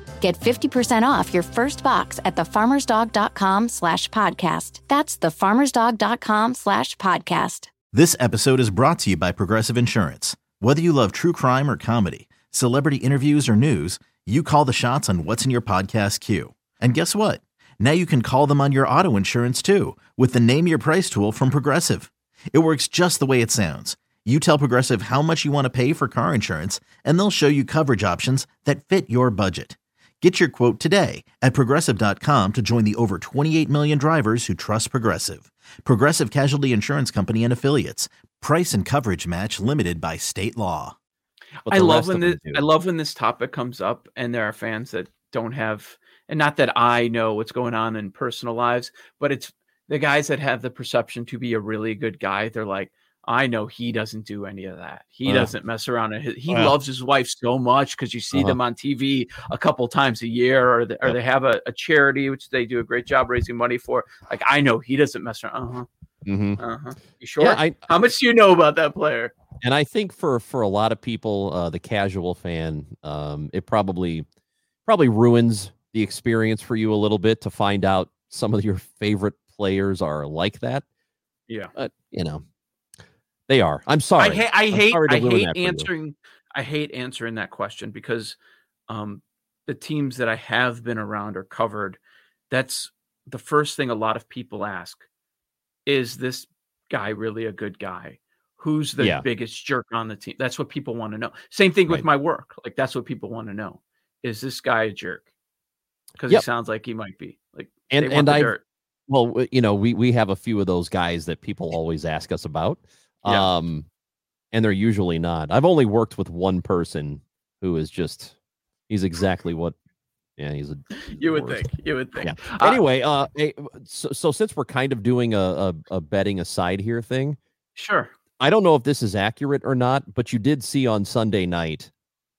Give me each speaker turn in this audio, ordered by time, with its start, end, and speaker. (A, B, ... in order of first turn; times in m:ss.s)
0:00.2-0:07.7 A
0:07.9-0:40.9 B
0:41.6-0:42.7 C
0:41.7-1:05.9 D
0:55.2-0:55.5 C
0:56.5-0:56.7 C
0:58.3-0:58.6 C
1:06.2-1:06.6 C
1:06.6-1:09.4 D
1:07.4-1:07.8 C
1:09.6-1:14.2 C
1:14.9-1:20.8 C
1:21.7-1:22.4 C
1:23.5-1:25.9 C
1:24.2-1:28.4 D
1:28.9-1:32.0 D
1:32.5-1:35.0 D
1:35.8-1:45.2 D
1:39.0-1:39.2 C
1:46.2-1:48.6 D
1:47.9-1:48.5 C
1:49.1-1:53.8 C
1:54.5-1:58.3 C
1:58.9-1:59.7 C
2:00.4-2:01.6 C
2:01.0-2:02.8 D
2:02.2-2:07.4 C
2:07.8-2:08.1 D
2:08.4-2:11.9 C